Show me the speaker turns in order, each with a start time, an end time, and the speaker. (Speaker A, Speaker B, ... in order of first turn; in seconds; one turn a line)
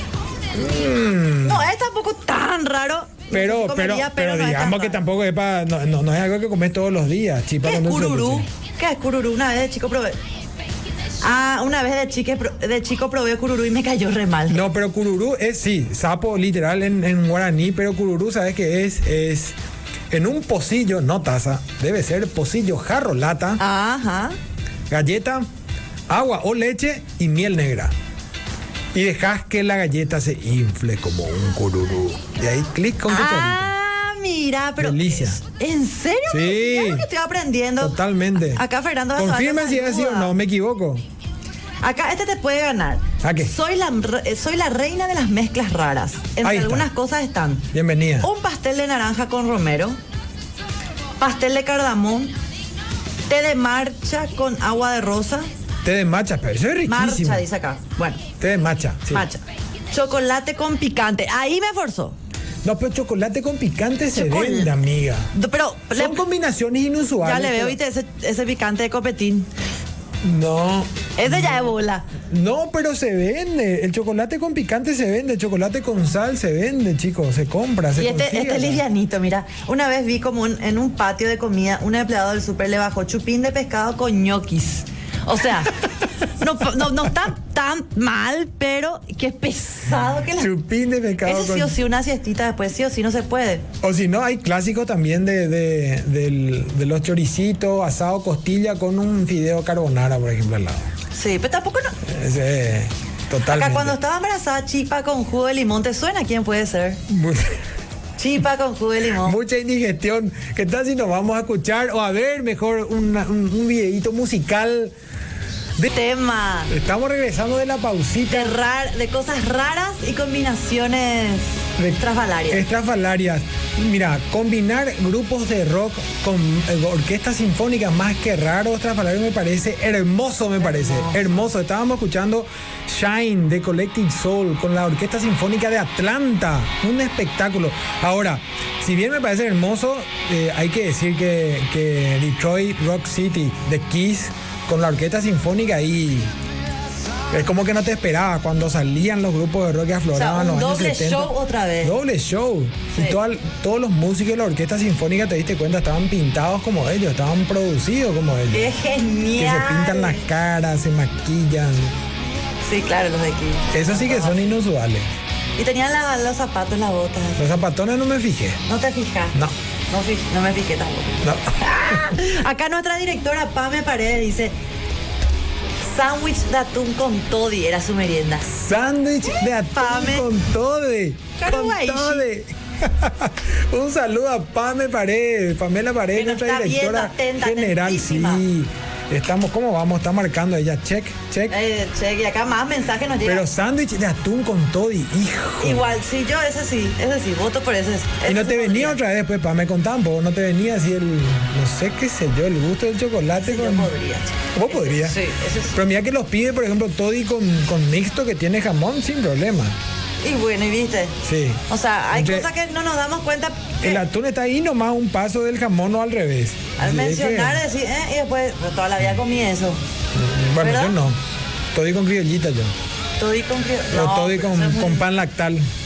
Speaker A: 0.5-1.7
Speaker B: 1.4-5.0
Speaker A: 3.3-8.4
Speaker B: 7.6-10.2
Speaker B: 11.2-14.6
Speaker A: 14.5-19.5
Speaker A: 20.1-23.6
Speaker B: 23.6-24.4
Speaker A: 24.9-25.5
Speaker A: 26.1-27.9
Speaker A: 28.9-33.7
Speaker B: 33.1-40.3
Speaker A: 34.8-35.4
Speaker A: 36.3-37.1
Speaker A: 37.8-38.6
Speaker A: 39.1-41.0
Speaker B: 41.8-47.7
Speaker A: 43.2-43.5
Speaker A: 46.4-46.9
Speaker A: 47.7-48.3
Speaker B: 48.2-50.0
Speaker B: 51.2-52.4
Speaker B: 53.3-55.5
Speaker A: 55.8-57.4
Speaker B: 56.9-58.2
Speaker A: 58.4-59.2
Speaker B: 59.1-62.1
Speaker A: 62.6-65.3
Speaker B: 64.1-64.7
Speaker B: 65.3-66.2
Speaker A: 65.9-67.8
Speaker B: 67.2-69.5
Speaker A: 70.2-78.8
Speaker B: 71.2-72.1
Speaker B: 78.0-85.8
Speaker B: 86.4-90.5
Speaker A: 90.3-91.8
Speaker B: 91.2-93.7
Speaker A: 93.8-100.9
Speaker B: 101.1-101.9
Speaker A: 102.0-104.0
Speaker B: 103.5-107.0
Speaker A: 107.1-107.6
Speaker B: 108.2-109.3
Speaker A: 109.1-114.9
Speaker B: 115.9-116.7
Speaker A: 116.7-118.6
Speaker B: 118.3-122.6
Speaker A: 121.8-146.3
Speaker B: 130.6-131.2
Speaker A: 147.3-158.7
Speaker B: 150.1-151.9
Speaker B: 158.5-160.2
Speaker A: 159.3-161.9
Speaker B: 162.6-164.6
Speaker A: 163.7-165.1
Speaker B: 165.6-167.4
Speaker A: 167.4-168.6
Speaker B: 168.7-169.4
Speaker B: 169.9-174.5
Speaker A: 171.2-172.0
Speaker B: 175.8-178.5
Speaker A: 178.5-191.6
Speaker B: 179.7-180.3
Speaker B: 181.4-182.2
Speaker B: 186.1-188.4
Speaker B: 191.5-193.5
Speaker A: 193.2-195.9
Speaker B: 195.6-199.0
Speaker A: 198.2-203.9
Speaker B: 203.4-205.8
Speaker A: 204.5-205.2
Speaker A: 205.7-209.8
Speaker B: 210.2-211.2
Speaker A: 211.2-212.5
Speaker B: 211.7-214.0
Speaker A: 213.8-217.6
Speaker B: 216.8-219.8
Speaker A: 220.1-221.2
Speaker B: 220.6-220.9
Speaker A: 221.7-222.7
Speaker B: 223.2-225.1
Speaker A: 223.9-225.7